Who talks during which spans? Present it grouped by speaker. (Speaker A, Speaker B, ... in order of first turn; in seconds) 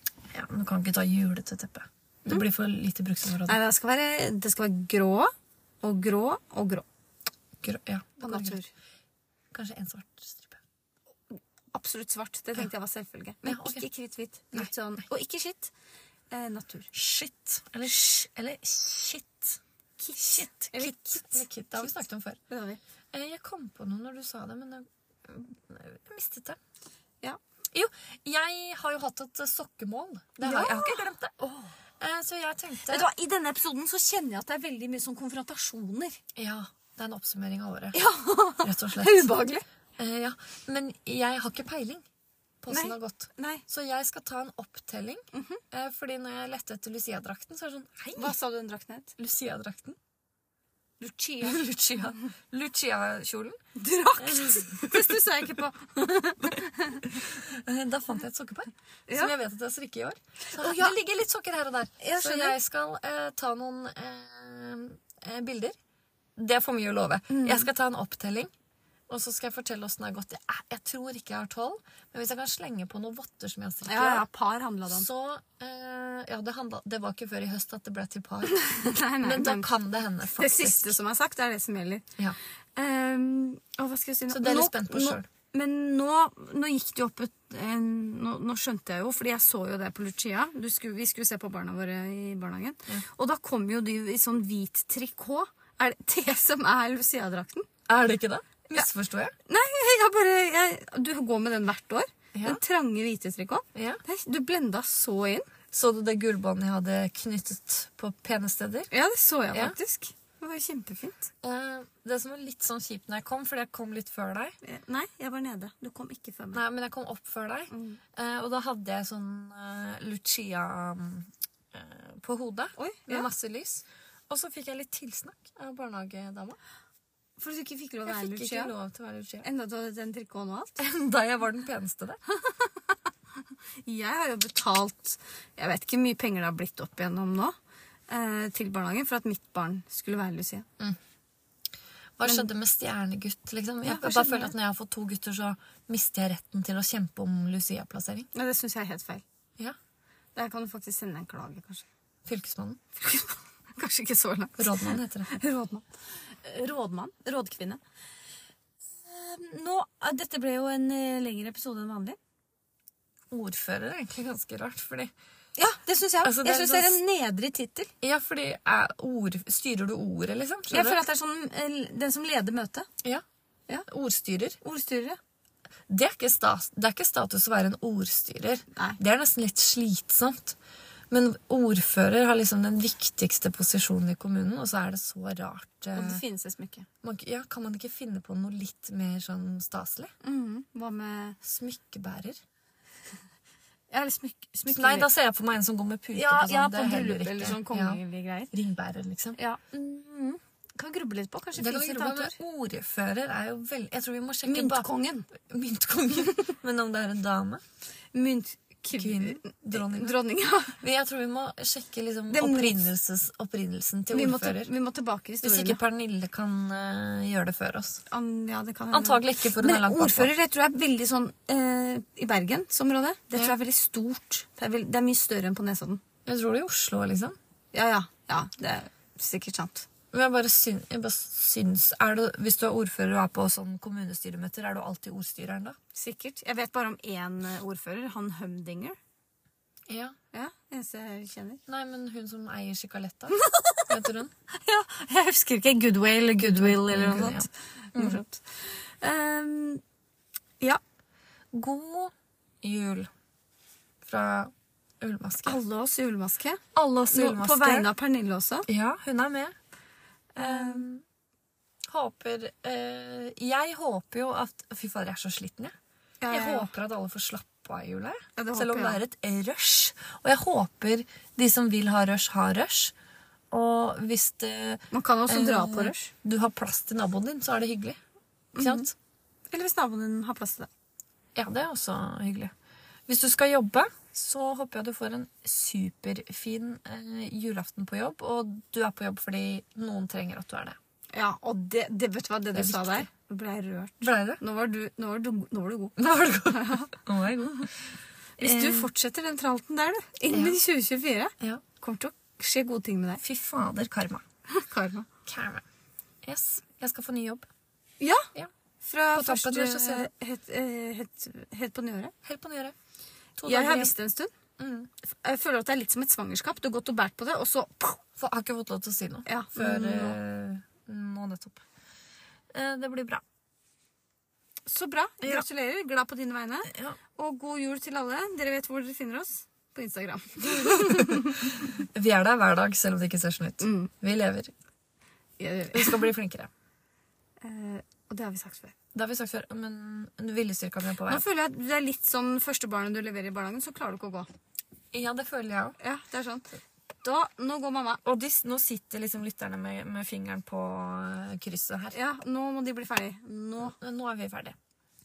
Speaker A: 0.3-3.6, 7.6-8.6, 9.5-10.6, 13.4-13.8, 16.9-19.6, 20.2-22.4, 23.1-26.6, 27.7-31.3, 32.0-33.1, 36.3-38.0, 38.6-39.4, 40.0-42.0, 42.6-48.3, 49.2-50.0, 51.4-53.6, 54.2-55.2, 57.1-65.8, 66.3-68.5, 69.1-74.2, 74.9-78.5, 79.2-80.9, 84.3-85.2, 97.9-99.3, 102.3-102.6, 103.7-104.0, 105.7-108.9, 111.4-114.5, 116.5-126.6, 128.1-129.4, 130.8-132.2, 142.2-148.3, 152.2-152.8, 154.6-155.3, 163.3-165.1, 166.2-167.0, 168.0-171.0, 173.9-174.6, 175.9-180.6, 181.1-186.2, 187.0-190.1, 191.4-192.4, 194.7-198.0, 198.5-199.4, 201.5-204.9, 205.4-207.6, 208.9-210.2, 210.8-214.7, 215.4-218.0, 218.9-220.3, 226.2-227.4, 230.1-235.8, 239.9-240.1, 241.7-244.3, 246.4-248.2, 251.5-253.1, 254.0-255.6, 256.7-257.9, 258.7-259.5, 260.4-261.0, 261.9-265.7, 266.3-272.9, 273.5-278.0, 278.6-278.9, 281.4-282.5, 283.1-290.8, 292.5-293.1, 294.0-294.4, 296.0-297.7, 298.4-298.9, 300.3-300.6, 303.2-304.2, 305.2-305.6, 306.2-307.5, 309.1-310.1, 312.2-312.7, 313.4-313.9, 314.6-314.9, 318.2-321.6, 322.5-323.2, 326.7-327.0, 330.6-334.5, 335.7-336.5, 338.9-341.2, 344.9-345.8, 348.0-351.9, 353.6-354.6
Speaker B: 3.5-6.8, 8.2-8.7, 11.7-15.7, 16.3-16.9, 20.0-22.0, 22.5-22.8, 30.4-31.7, 32.9-36.2, 37.9-39.6, 42.7-43.6, 45.3-45.6, 48.1-49.1, 51.0-51.6, 53.8-57.1, 60.5-60.9, 62.0-62.6, 67.3-67.7, 73.8-75.1, 78.4-79.7, 80.3-82.0, 82.8-97.7, 99.5-105.5, 108.9-111.3, 114.6-116.6, 117.7-118.0, 122.8-123.3, 127.4-128.7, 129.4-130.8, 132.3-133.0, 133.8-137.5, 138.1-140.7, 143.8-144.5, 148.3-149.2, 150.3-151.8, 152.9-155.8, 156.4-157.8, 159.1-162.2, 165.6-167.9, 170.7-172.9, 174.6-175.2, 185.9-186.9, 190.2-191.4, 193.9-195.1, 196.1-198.5, 199.3-202.4, 204.4-205.3, 208.1-210.8, 212.3-212.8, 214.1-215.8, 218.1-226.0, 227.7-229.9, 235.9-239.0, 240.3-241.6, 243.3-244.0, 244.5-249.8, 255.4-258.7, 260.4-260.8, 266.2-266.7, 268.4-269.0, 274.9-276.1, 278.6-278.9, 279.5-280.7, 291.1-296.9, 298.4-303.2, 304.5-305.1, 308.0-308.3, 308.8-312.1, 313.4-314.3, 315.0-318.0, 319.2-320.2, 324.6-331.7, 333.6-333.9, 335.4-336.1, 337.4-338.7, 341.1-344.3, 345.8-346.5, 347.0-348.0, 351.9-353.7